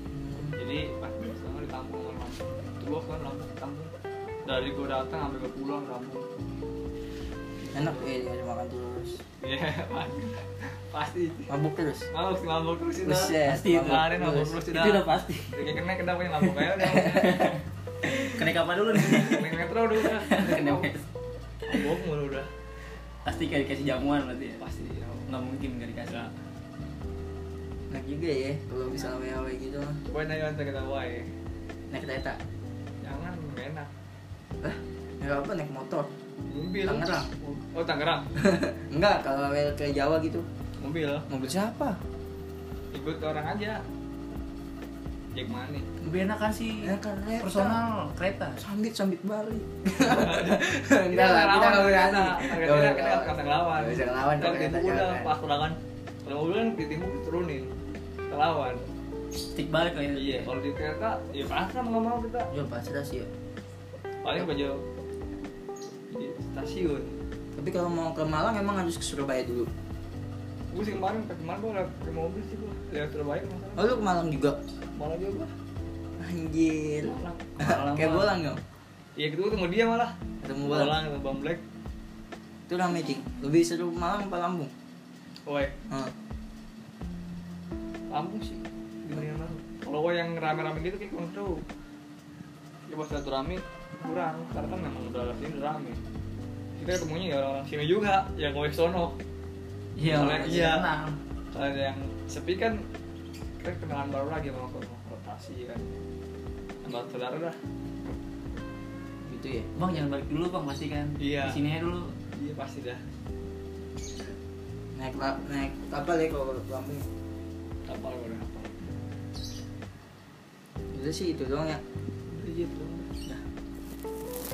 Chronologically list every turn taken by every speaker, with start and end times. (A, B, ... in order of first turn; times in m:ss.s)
0:00.1-0:00.6 A
0:00.6-0:03.9 B
0:04.4-0:06.2 B
0:07.6-0:08.1 B
0:07.7-0:09.2 A
0:09.4-0:11.5 B
0:11.5-0:12.1 A
0:12.1-0:17.5 B
0:13.0-0:14.6 A
0:13.4-0:14.1 C
0:14.6-0:15.6 C
0:16.4-0:19.6 C
0:19.0-0:20.9 B
0:20.2-0:21.1 C
0:21.6-0:22.5 B
0:23.2-0:24.6 C
0:24.6-0:25.2 B
0:25.3-0:26.3 C
0:27.9-0:30.0 A
0:30.1-0:31.3 B
0:31.9-0:32.4 A
0:33.0-0:33.9 B
0:34.6-0:36.1 A
0:36.5-0:38.3 B
0:36.8-0:37.3 A
0:38.4-0:40.5 A
0:40.8-0:41.3 B
0:41.3-0:42.0 A
0:42.9-0:43.8 B
0:45.3-0:45.9 B
0:46.0-0:48.6 C
0:46.8-0:47.8 A
0:48.6-0:55.3 A
0:50.0-0:57.7 B
0:58.3-0:58.8 B
0:59.5-1:00.5 C
1:00.2-1:02.5 B
1:02.5-1:03.3 A
1:04.2-1:04.8 B
1:06.1-1:07.2 B
1:07.6-1:09.7 A
1:10.7-1:13.9 B
1:13.8-1:14.6 A
1:15.0-1:15.5 B
1:16.2-1:18.6 A
1:17.0-1:18.2 B
1:19.2-1:21.6 B
1:20.4-1:21.0 A
1:22.7-1:24.7 A
1:25.4-1:25.7 B
1:25.9-1:26.1 A
1:28.1-1:31.6 B
1:32.9-1:36.0 B
1:36.7-1:39.2 B
1:40.0-1:41.2 C
1:40.1-1:40.9 B
1:40.1-1:40.6 A
1:41.5-1:42.8 B
1:43.6-1:46.0 B
1:46.8-1:47.6 B
1:49.2-1:50.0 A
1:49.8-1:52.1 C
1:51.2-1:51.6 B
1:52.3-1:53.0 B
1:55.0-1:57.1 A
1:57.9-1:58.8 B
2:00.9-2:01.8 A
2:02.3-2:03.2 B